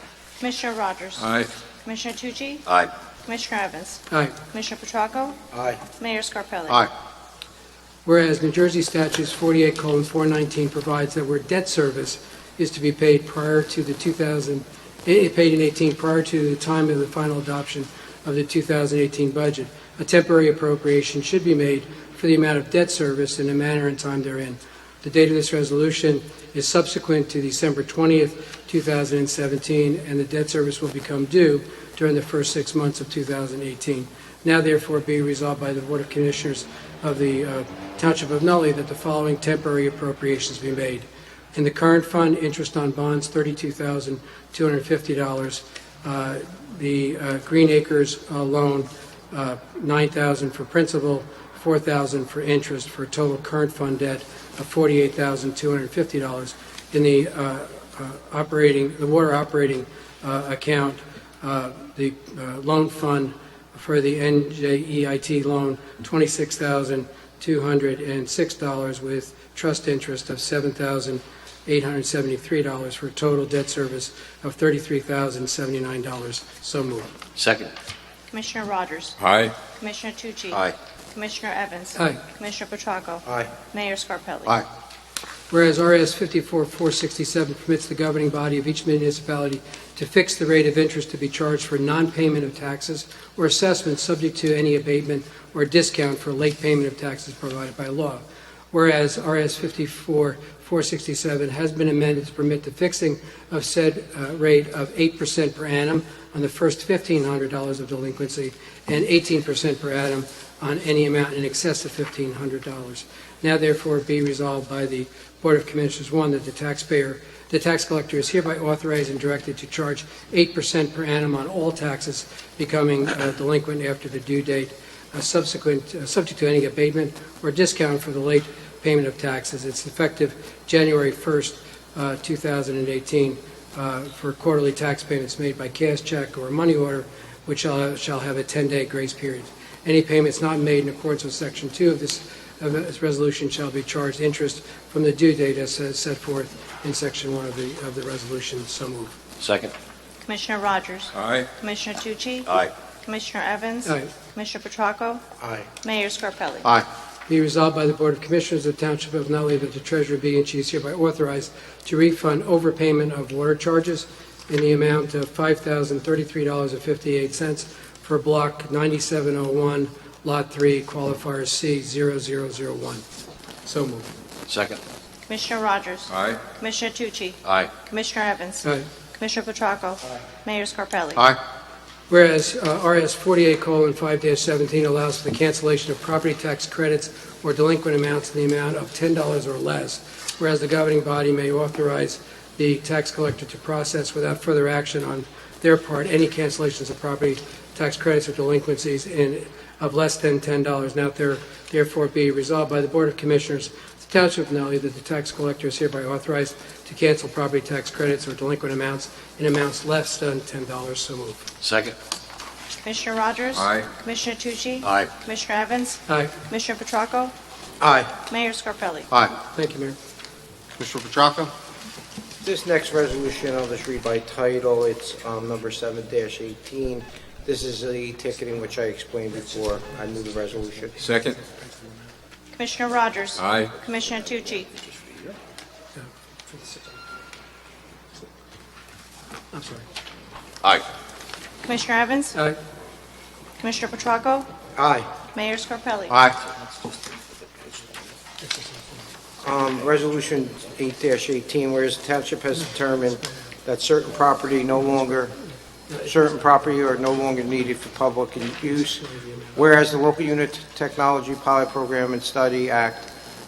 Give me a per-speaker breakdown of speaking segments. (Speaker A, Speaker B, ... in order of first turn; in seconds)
Speaker A: 0.4-1.3, 1.8-2.6, 3.2-5.4, 6.0-6.9, 78.3-79.2, 79.8-80.6, 81.1-84.6, 150.2-152.5, 153.0-155.2, 155.8-156.7, 175.3-181.3, 212.8-217.3, 218.3-219.1, 232.5-234.7, 241.6-242.4, 243.6-244.5, 245.3-246.2
Speaker B: 1.2-1.5, 79.2-79.5, 151.1-151.5, 176.1-176.4, 213.5-213.9, 231.0-231.4, 233.4-233.7
Speaker C: 4.1-4.3, 8.0-77.1, 82.0-82.2, 85.5-149.2, 153.8-154.1, 157.3-173.0, 173.6-174.1, 182.1-211.5, 216.1-216.3, 219.3-220.0, 239.5-239.8, 258.9-259.6
Speaker D: 5.5-5.8, 83.2-83.5, 155.4-155.7, 217.8-218.1, 222.4-231.1, 244.8-245.1, 246.1-246.4, 249.4-255.4, 256.0-263.1
Speaker E: 77.3-77.7, 149.4-149.7, 152.5-152.7, 174.5-174.8, 177.4-177.7, 211.6-211.9, 214.8-215.1, 220.8-221.4